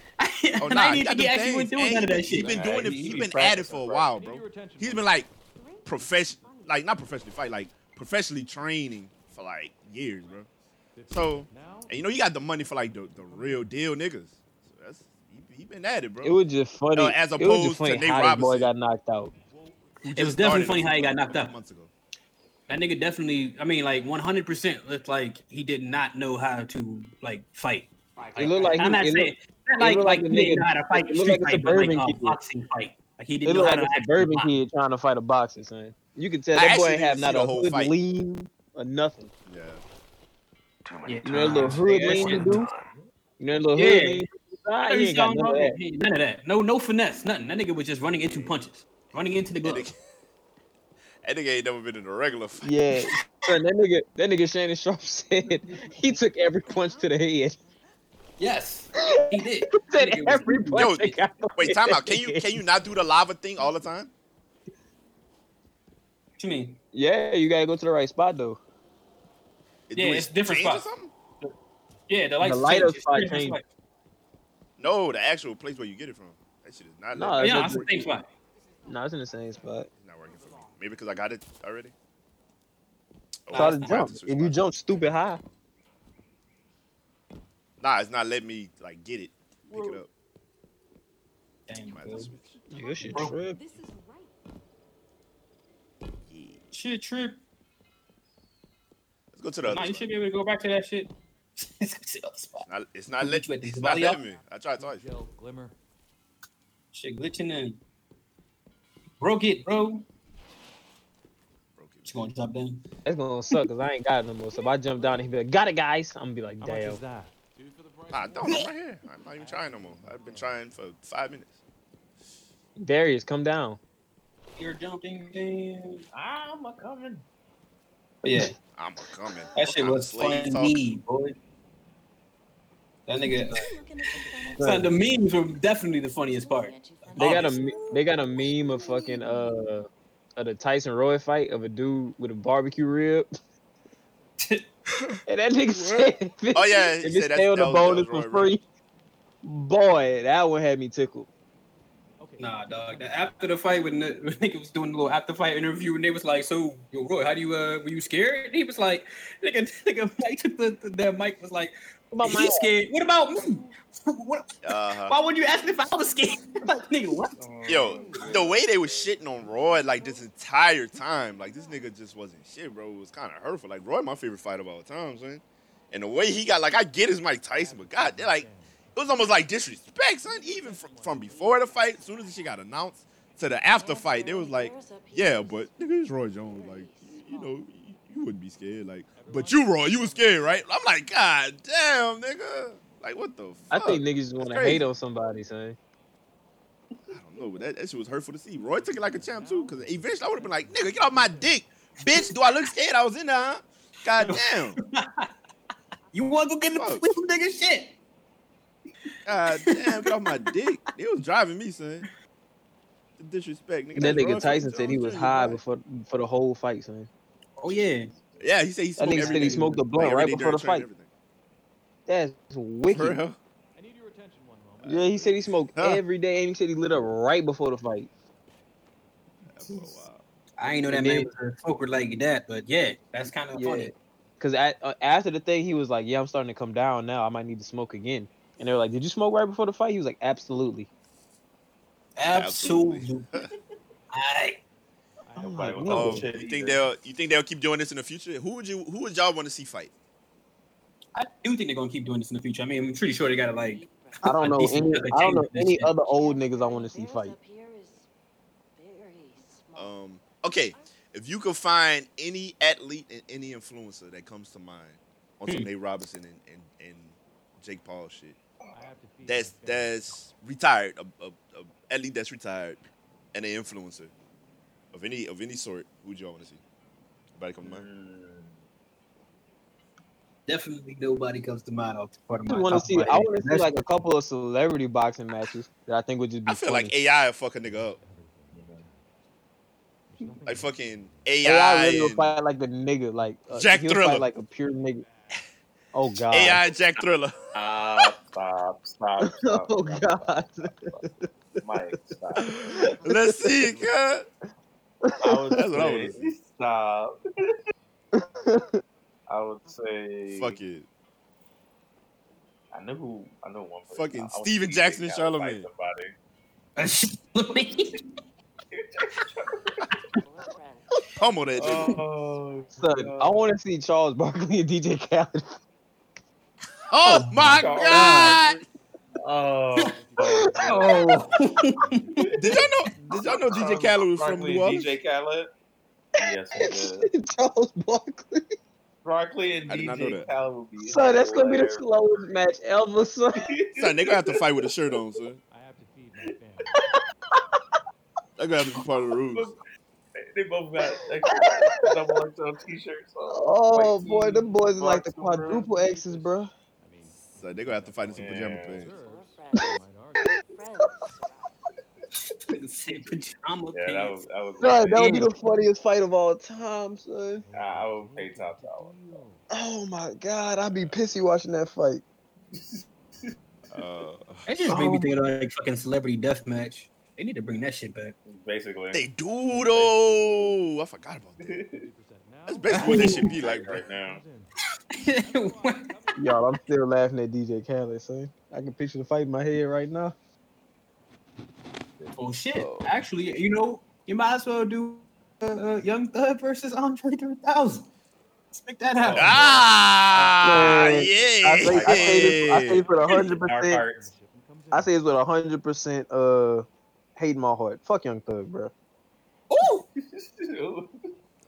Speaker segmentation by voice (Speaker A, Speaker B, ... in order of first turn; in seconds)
Speaker A: 0.2-2.6, 20.1-21.5, 22.7-34.5, 41.0-42.6, 43.8-44.3, 44.9-49.9, 58.4-61.0, 66.4-66.8, 69.9-70.9, 72.1-73.7, 77.4-78.3, 83.5-84.1, 91.7-92.3, 93.1-93.4, 96.7-97.4, 99.7-102.7, 103.2-104.2, 106.9-107.8, 109.2-110.0, 112.0-112.8, 124.6-126.0, 128.2-128.5, 129.5-131.3, 133.1-133.7, 134.5-137.5, 144.4-144.6, 152.4-167.4, 202.0-202.5, 204.2-205.3, 206.1-207.9, 209.7-210.5, 217.6-218.1, 230.6-233.9, 242.2-243.3, 244.1-244.6, 251.1-255.9, 280.5-283.7, 316.8-318.1, 327.0-328.2, 330.6-332.5, 362.5-365.3, 374.5-378.1, 382.7-383.2, 384.9-385.9, 392.2-397.9, 398.5-399.4, 409.5-409.8
Speaker B: 0.6-5.3, 5.8-10.5, 11.1-16.4, 16.9-18.7, 20.0-21.9, 36.5-37.9, 39.5-39.8, 48.2-48.5, 49.6-49.9, 51.2-52.7, 60.7-64.1, 69.9-71.1, 74.8-77.9, 80.0-81.9, 83.5-85.2, 87.8-90.1, 91.9-92.6, 96.3-96.6, 99.3-100.0, 102.7-105.0, 111.8-112.3, 118.1-121.6, 128.8-130.8, 145.7-148.5, 164.6-165.1, 167.7-194.8, 197.1-204.8, 206.8-207.1, 209.2-212.1, 213.2-215.6, 218.4-221.1, 222.9-223.4, 225.8-226.0, 229.5-230.2, 242.2-243.5, 245.9-249.9, 259.8-268.4, 269.2-272.8, 273.3-274.1, 274.9-276.6, 277.3-277.8, 286.4-288.0, 290.4-292.3, 293.5-294.2, 296.3-297.4, 302.4-304.2, 305.5-306.3, 310.3-310.9, 313.9-315.7, 321.2-322.0, 326.9-328.6, 332.4-334.9, 339.7-340.3, 343.8-345.4, 348.4-349.5, 357.2-358.9, 373.7-374.5, 378.9-381.6, 382.4-383.9, 399.1-402.8
Speaker C: 2.3-4.1, 40.9-43.0, 89.7-90.0, 126.1-127.2, 167.3-169.2, 217.7-218.5, 219.2-219.7, 229.6-230.0, 245.4-246.8, 268.6-268.9, 277.6-278.6, 288.5-288.9, 297.5-301.1, 301.6-303.0, 305.2-307.6, 309.3-310.6, 312.7-316.1, 318.7-320.0, 321.6-323.4, 327.4-328.6, 329.2-331.4, 332.1-335.5, 336.1-337.1, 339.0-341.9, 343.3-344.4, 349.3-349.6, 350.1-355.7, 358.1-358.9, 363.7-365.3, 367.5-368.9, 372.5-373.8, 378.2-380.6, 381.4-381.8, 382.7-384.2, 392.0-393.0, 399.0-399.7, 401.7-404.1, 410.0-410.9
Speaker D: 4.0-5.3, 6.0-6.5, 10.9-12.0, 12.8-13.7, 19.5-20.0, 80.5-80.7, 104.0-105.8, 115.0-115.2, 116.6-118.7, 119.2-120.6, 134.2-135.4, 152.2-154.2, 177.5-182.5, 189.1-190.8, 198.5-201.7, 223.7-225.6, 245.2-246.2, 268.7-270.3, 287.6-289.0, 290.1-292.0, 329.9-333.3, 345.5-346.8, 355.3-360.4, 367.3-369.5, 370.7-371.0, 381.7-386.7, 402.2-405.2
Speaker E: 5.5-6.8, 56.7-57.8, 78.6-79.7, 92.7-94.4, 133.1-139.5, 169.7-170.2, 171.3-171.8, 182.1-182.3, 183.8-187.7, 253.0-258.1, 258.7-260.9, 320.1-321.0, 358.9-359.8, 360.3-361.5
Speaker F: 16.2-19.3, 28.4-32.4, 33.4-39.3, 41.2-42.7, 43.4-45.8, 52.6-57.5, 59.1-62.5, 66.9-68.6, 72.4-73.6, 77.1-77.9, 78.9-79.9, 83.5-85.4, 92.7-93.6, 113.0-117.0, 122.8-123.8, 134.6-134.9, 137.2-143.3, 145.3-148.6, 149.4-151.3, 162.1-162.7, 193.7-195.8, 213.9-217.1, 219.0-220.9, 222.1-223.2, 224.8-228.1, 230.9-231.3, 233.5-240.9, 245.3-246.3, 254.2-257.3, 282.4-286.9, 291.4-295.0, 295.9-296.6, 299.2-301.2, 302.4-303.5, 305.0-305.5, 308.1-308.8, 322.8-325.6, 336.5-338.6, 340.8-343.5, 346.7-347.0, 351.2-351.8, 353.3-356.5, 360.2-360.9, 364.6-367.4, 369.5-372.0, 374.6-375.1, 386.1-390.1, 400.4-403.8, 404.7-406.6, 407.2-408.7